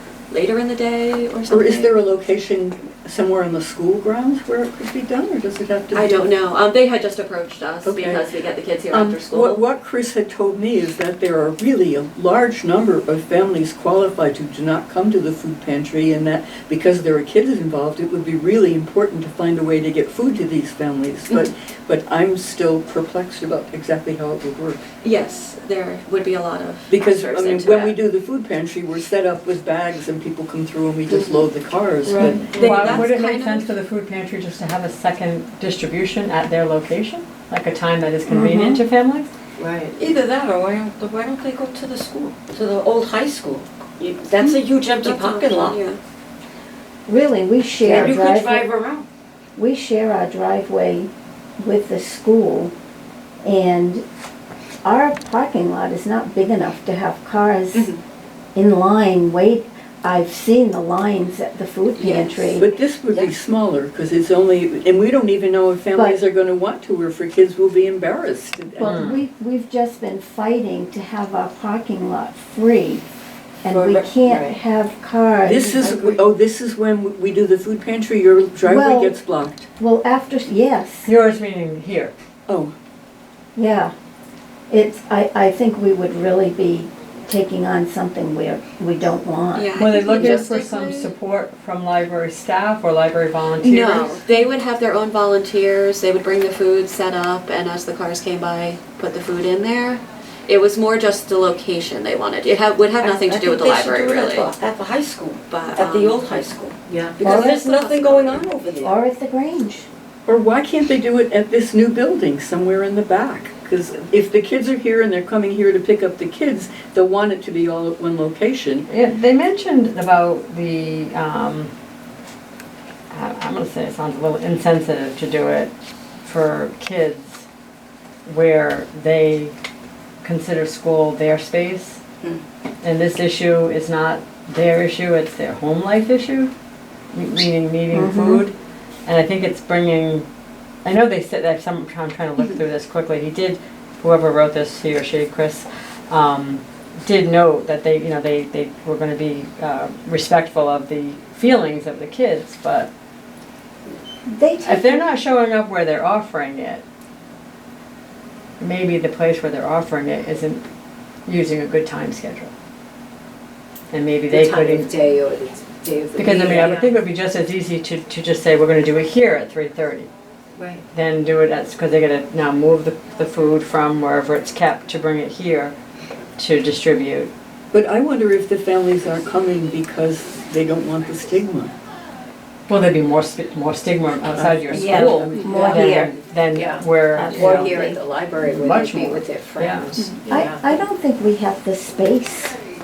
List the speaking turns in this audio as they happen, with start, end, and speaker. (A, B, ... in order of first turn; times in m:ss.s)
0:00.3-0:01.9 A
0:01.5-0:06.3 B
0:05.9-0:09.6 A
0:07.8-0:08.2 B
0:08.9-0:24.8 B
0:25.0-0:28.0 A
0:26.9-0:32.5 B
0:32.0-0:33.0 C
0:32.1-0:33.7 A
0:32.5-0:39.3 D
0:38.2-0:38.8 E
0:39.6-0:45.8 C
0:45.0-0:46.0 A
0:47.1-0:48.7 E
0:47.8-0:49.0 C
0:49.6-0:52.7 E
0:53.4-0:54.0 E
0:54.8-0:57.9 E
0:58.5-1:02.8 E
1:02.0-1:02.5 A
1:02.6-1:09.0 B
1:05.9-1:06.2 E
1:08.8-1:13.0 E
1:08.8-1:09.2 D
1:13.6-1:15.7 E
1:13.7-1:14.5 C
1:15.4-1:19.7 B
1:15.7-1:16.2 C
1:18.6-1:19.2 E
1:19.8-1:21.1 E
1:21.0-1:22.1 D
1:22.5-1:22.7 B
1:23.6-1:23.9 E
1:24.7-1:30.4 E
1:29.5-1:31.1 A
1:29.8-1:34.2 D
1:33.6-1:44.5 A
1:43.0-1:48.9 C
1:45.5-1:46.5 A
1:47.2-1:47.8 E
1:47.2-1:48.5 A
1:48.8-1:49.9 E
1:50.3-1:58.9 B
1:58.9-2:01.7 D
2:03.1-2:05.7 D
2:06.2-2:07.4 D
2:08.2-2:09.5 D
2:10.2-2:12.0 D
2:12.8-2:16.5 D
2:17.1-2:18.5 D
2:17.9-2:18.5 E
2:19.0-2:20.2 D
2:20.8-2:32.9 D
2:34.3-2:35.0 E
2:34.6-2:36.8 D
2:38.6-2:40.6 D
2:41.3-2:42.5 D
2:43.9-2:44.9 D
2:44.4-2:46.8 F
2:45.2-2:45.8 C
2:46.2-2:50.1 D
2:50.9-2:55.7 D
2:56.4-2:57.3 D
2:57.7-3:01.7 B
3:02.7-3:07.9 D
3:04.3-3:05.1 B
3:04.7-3:06.1 C
3:05.5-3:05.9 E
3:06.8-3:07.9 C
3:07.2-3:08.0 E
3:07.4-3:09.7 F
3:08.4-3:09.9 D
3:09.4-3:10.6 C
3:10.0-3:10.4 A
3:10.2-3:12.5 E